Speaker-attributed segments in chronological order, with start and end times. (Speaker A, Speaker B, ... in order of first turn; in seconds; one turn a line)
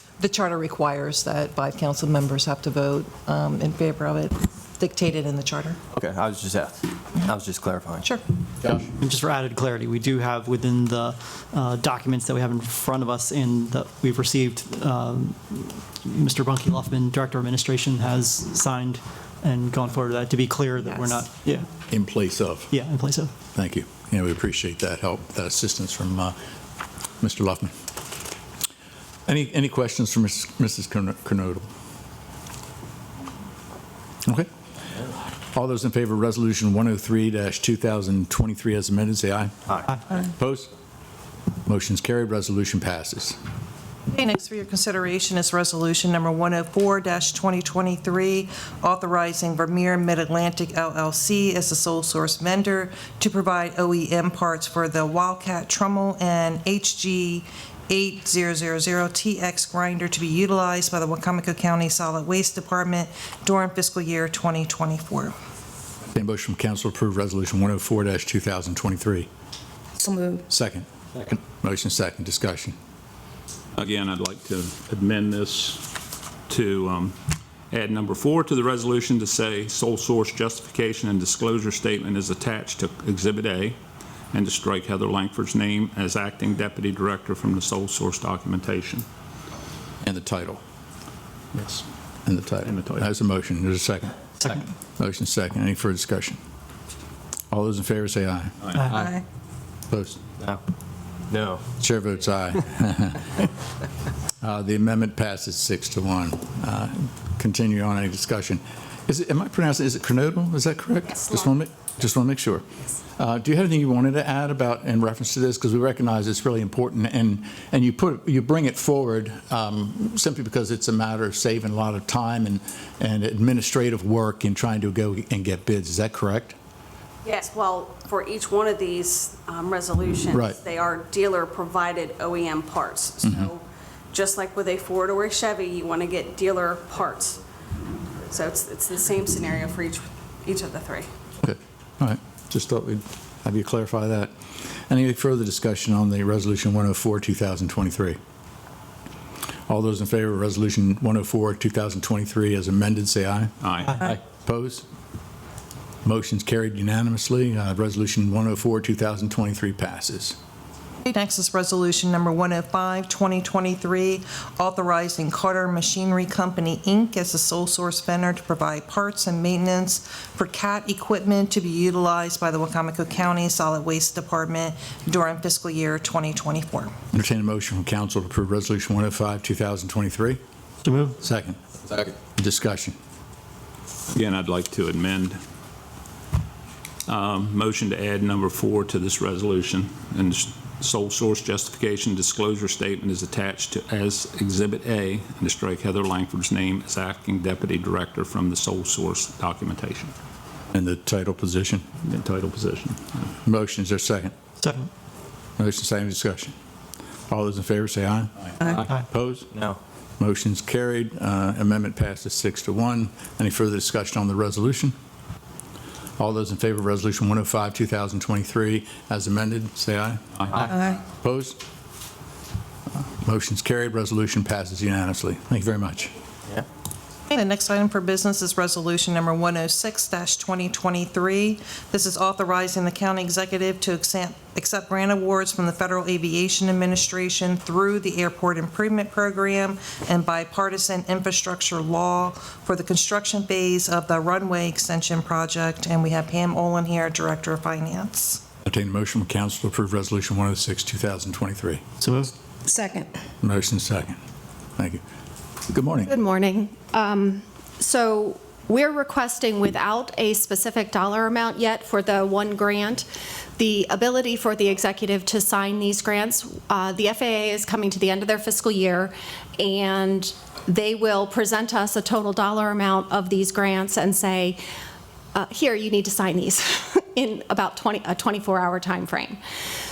Speaker A: 0.2-5.8
Speaker B: 5.9-8.1
Speaker C: 9.0-21.7
Speaker D: 21.9-22.7
Speaker C: 22.7-23.3
Speaker D: 23.5-26.4
Speaker D: 27.2-27.7
Speaker D: 29.2-31.6
Speaker D: 35.5-39.5
Speaker D: 40.1-40.7
Speaker D: 41.6-43.4
Speaker A: 44.1-65.3
Speaker D: 66.1-69.3
Speaker D: 70.5-72.8
Speaker E: 73.8-77.2
Speaker E: 77.7-83.8
Speaker E: 84.3-89.0
Speaker D: 90.0-90.6
Speaker E: 91.5-91.8
Speaker D: 92.2-96.4
Speaker E: 92.6-93.1
Speaker D: 97.5-98.6
Speaker C: 98.8-99.1
Speaker D: 99.9-100.2
Speaker B: 101.3-101.6
Speaker D: 101.8-103.5
Speaker D: 104.4-112.6
Speaker D: 113.2-126.6
Speaker F: 127.2-137.4
Speaker F: 138.2-141.1
Speaker D: 141.4-144.3
Speaker D: 144.9-148.2
Speaker D: 149.7-154.8
Speaker E: 153.6-154.0
Speaker D: 156.0-160.3
Speaker A: 161.0-176.9
Speaker D: 177.1-180.4
Speaker C: 180.8-181.2
Speaker D: 181.2-181.6
Speaker B: 181.9-182.1
Speaker D: 182.3-182.9
Speaker E: 184.1-185.4
Speaker E: 187.1-200.1
Speaker D: 200.7-201.8
Speaker E: 202.0-203.3
Speaker D: 203.4-204.3
Speaker C: 204.6-204.9
Speaker D: 205.6-206.5
Speaker D: 207.3-209.5
Speaker D: 210.2-214.9
Speaker D: 216.2-221.6
Speaker D: 223.1-226.1
Speaker A: 227.3-248.4
Speaker D: 248.6-251.8
Speaker C: 252.0-252.3
Speaker D: 253.4-254.2
Speaker D: 255.7-256.1
Speaker G: 256.1-263.1
Speaker G: 263.6-274.6
Speaker G: 275.3-279.4